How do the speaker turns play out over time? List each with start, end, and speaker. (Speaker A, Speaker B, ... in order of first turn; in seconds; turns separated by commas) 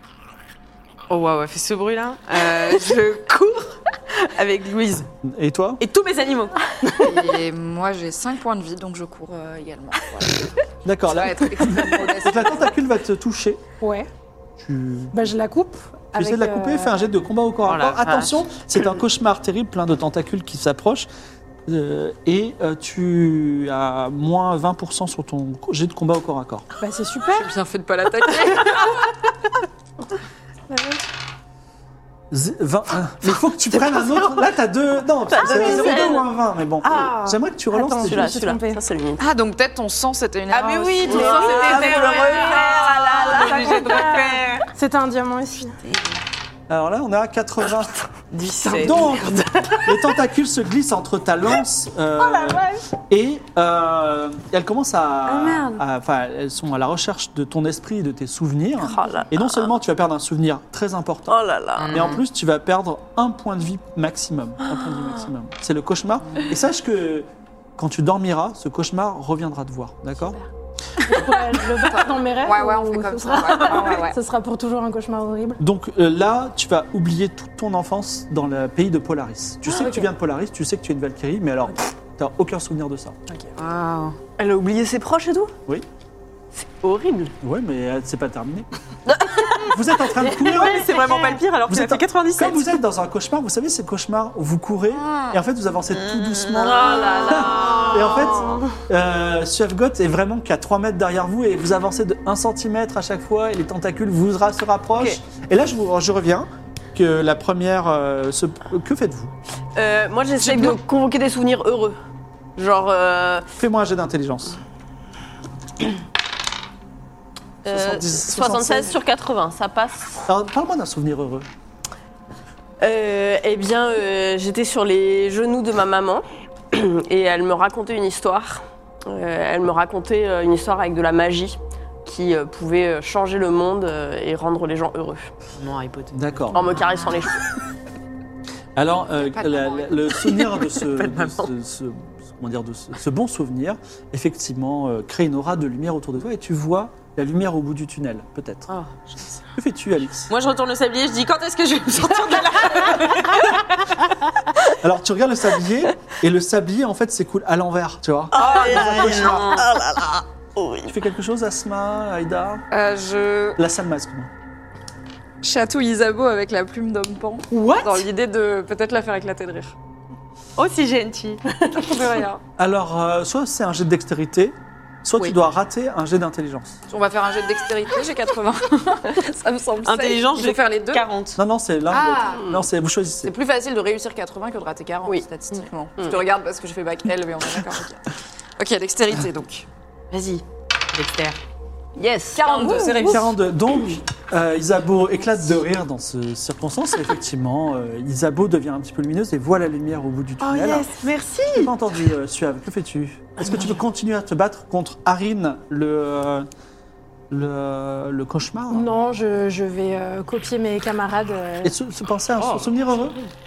Speaker A: 1.1-5.1, Speaker B: 5.2-5.8, Speaker A: 5.8-6.7, Speaker C: 7.0-10.5, Speaker B: 10.8-13.6, Speaker C: 11.1-12.7, Speaker D: 13.8-14.1, Speaker B: 14.6-15.3, Speaker D: 15.1-17.1, Speaker B: 16.1-21.1, Speaker A: 17.7-18.4, Speaker B: 21.7-26.6, Speaker D: 26.8-27.5, Speaker C: 27.3-29.1, Speaker B: 32.3-38.4, Speaker E: 33.7-34.5, Speaker E: 35.3-36.3, Speaker D: 35.5-36.1, Speaker D: 36.8-38.8, Speaker E: 37.9-39.2, Speaker C: 39.2-44.1, Speaker A: 40.5-44.7, Speaker E: 41.0-44.1, Speaker B: 41.7-42.1, Speaker D: 43.7-45.8, Speaker B: 46.7-48.1, Speaker A: 48.3-49.9, Speaker B: 48.7-61.4, Speaker A: 55.3-55.7, Speaker E: 58.8-59.7, Speaker E: 61.3-62.2, Speaker A: 61.8-62.2, Speaker B: 61.9-70.4, Speaker D: 71.0-75.6, Speaker C: 71.7-74.2, Speaker B: 75.6-83.2, Speaker D: 79.7-80.1, Speaker A: 83.6-84.2, Speaker E: 84.4-85.5, Speaker E: 86.5-87.3, Speaker B: 87.4-88.7, Speaker E: 89.2-89.8, Speaker B: 89.7-90.9, Speaker A: 90.2-92.7, Speaker E: 90.5-91.4, Speaker B: 91.7-109.3, Speaker E: 96.4-98.8, Speaker A: 96.5-97.9, Speaker E: 109.8-112.0, Speaker E: 112.6-113.5, Speaker B: 113.6-114.6, Speaker E: 117.6-120.2, Speaker B: 117.7-119.0, Speaker B: 120.3-121.5, Speaker E: 122.8-135.3, Speaker A: 135.6-137.2, Speaker B: 136.1-136.6, Speaker E: 136.5-137.4, Speaker B: 138.8-148.7, Speaker C: 139.2-140.0, Speaker A: 141.0-141.3, Speaker A: 148.7-149.4, Speaker B: 149.6-150.3, Speaker A: 150.3-153.8, Speaker B: 154.8-159.6, Speaker E: 158.3-160.9, Speaker A: 158.3-159.7, Speaker B: 160.9-162.6, Speaker C: 162.7-163.6, Speaker B: 163.6-164.3, Speaker C: 165.4-169.8, Speaker A: 167.5-168.1, Speaker A: 170.6-172.1, Speaker C: 171.7-172.4, Speaker B: 172.6-176.8, Speaker C: 176.9-181.1, Speaker A: 179.8-181.4, Speaker B: 181.4-183.3, Speaker C: 181.9-182.5, Speaker E: 182.3-182.7, Speaker C: 183.2-188.0, Speaker E: 186.0-186.2, Speaker C: 188.6-189.7, Speaker A: 190.1-191.4, Speaker E: 192.0-193.2, Speaker C: 192.3-193.3, Speaker B: 193.0-200.9, Speaker A: 200.4-201.7, Speaker B: 201.5-206.5, Speaker B: 207.3-208.9, Speaker D: 208.7-211.8, Speaker B: 211.6-213.2, Speaker A: 212.4-212.7